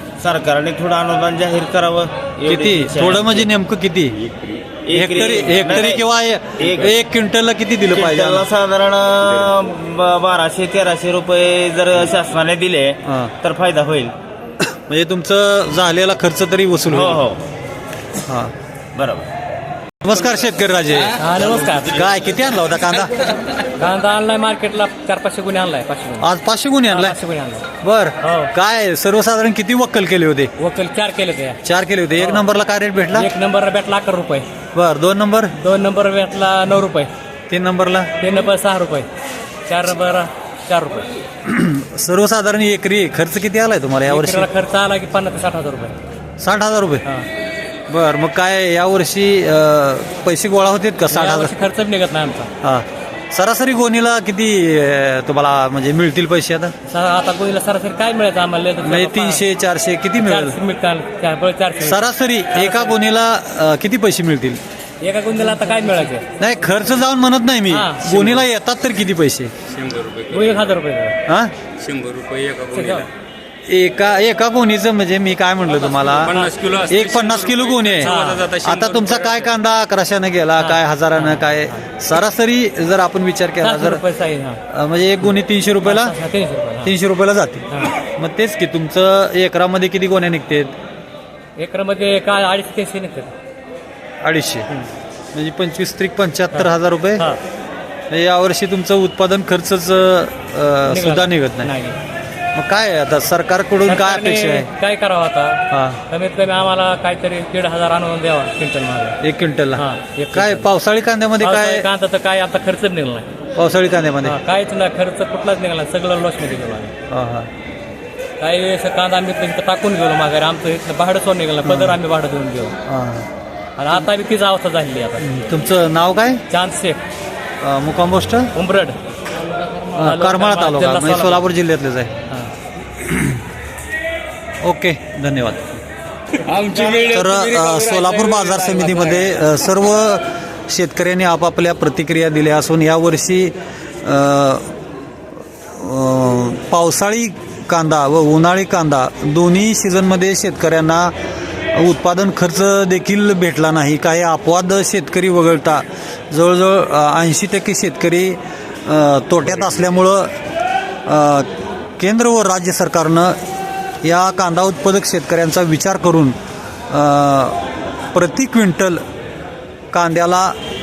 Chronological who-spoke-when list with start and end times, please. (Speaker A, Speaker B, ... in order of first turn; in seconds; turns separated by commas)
Speaker A: 0.2-3.5, Speaker B: 2.5-4.2, Speaker C: 4.2-4.6, Speaker A: 4.8-6.1, Speaker B: 4.9-8.5, Speaker A: 6.6-7.0, Speaker A: 7.9-14.1, Speaker B: 13.1-13.3, Speaker B: 14.6-17.2, Speaker A: 16.9-17.4, Speaker B: 18.3-18.5, Speaker A: 18.9-19.3, Speaker B: 20.0-21.2, Speaker D: 21.1-22.0, Speaker B: 21.9-23.1, Speaker D: 23.7-26.3, Speaker B: 26.2-27.2, Speaker D: 26.9-27.7, Speaker B: 27.8-30.5, Speaker D: 28.2-28.5, Speaker D: 30.6-31.6, Speaker B: 31.6-33.3, Speaker D: 32.2-32.5, Speaker D: 33.1-34.5, Speaker B: 34.7-35.5, Speaker D: 35.6-37.1, Speaker B: 37.5-38.1, Speaker D: 38.2-39.1, Speaker D: 39.7-41.1, Speaker B: 41.4-44.5, Speaker D: 44.1-46.0, Speaker B: 46.4-47.0, Speaker B: 47.9-51.5, Speaker D: 51.1-52.5, Speaker B: 52.6-56.7, Speaker D: 56.9-59.4, Speaker B: 58.8-60.6, Speaker D: 60.2-63.0, Speaker B: 61.8-64.6, Speaker D: 65.0-66.3, Speaker B: 66.4-69.5, Speaker D: 67.7-68.4, Speaker C: 69.7-70.6, Speaker D: 70.3-71.2, Speaker B: 71.3-71.5, Speaker C: 71.8-73.1, Speaker D: 72.7-73.1, Speaker B: 73.7-76.3, Speaker D: 76.2-76.5, Speaker C: 76.2-79.5, Speaker B: 76.9-78.1, Speaker D: 78.0-78.4, Speaker B: 78.6-84.0, Speaker D: 80.6-81.9, Speaker D: 83.6-84.6, Speaker B: 84.7-86.1, Speaker D: 85.8-86.9, Speaker B: 86.8-90.8, Speaker D: 91.6-93.3, Speaker B: 94.2-94.7, Speaker B: 95.3-97.3, Speaker D: 96.5-97.4, Speaker B: 98.1-101.7, Speaker D: 100.9-102.0, Speaker B: 102.5-104.7, Speaker D: 103.9-109.2, Speaker B: 105.7-106.0, Speaker B: 109.2-111.9, Speaker D: 109.8-110.7, Speaker D: 111.4-113.3, Speaker B: 113.6-114.4, Speaker D: 114.2-116.9, Speaker B: 117.1-117.5, Speaker D: 118.4-122.8, Speaker B: 121.6-122.0, Speaker B: 122.9-123.3, Speaker D: 123.8-125.5, Speaker B: 125.2-126.4, Speaker D: 126.5-127.0, Speaker B: 127.6-128.5, Speaker D: 128.6-129.0, Speaker D: 129.6-131.4, Speaker B: 129.9-132.1, Speaker B: 133.0-133.4, Speaker B: 134.6-135.8, Speaker C: 136.4-139.5, Speaker B: 137.1-144.7, Speaker B: 145.8-151.1, Speaker B: 151.8-160.3, Speaker B: 161.1-161.5, Speaker B: 162.0-163.4, Speaker B: 164.0-166.3, Speaker B: 166.9-167.6, Speaker B: 168.1-169.0, Speaker B: 169.9-170.6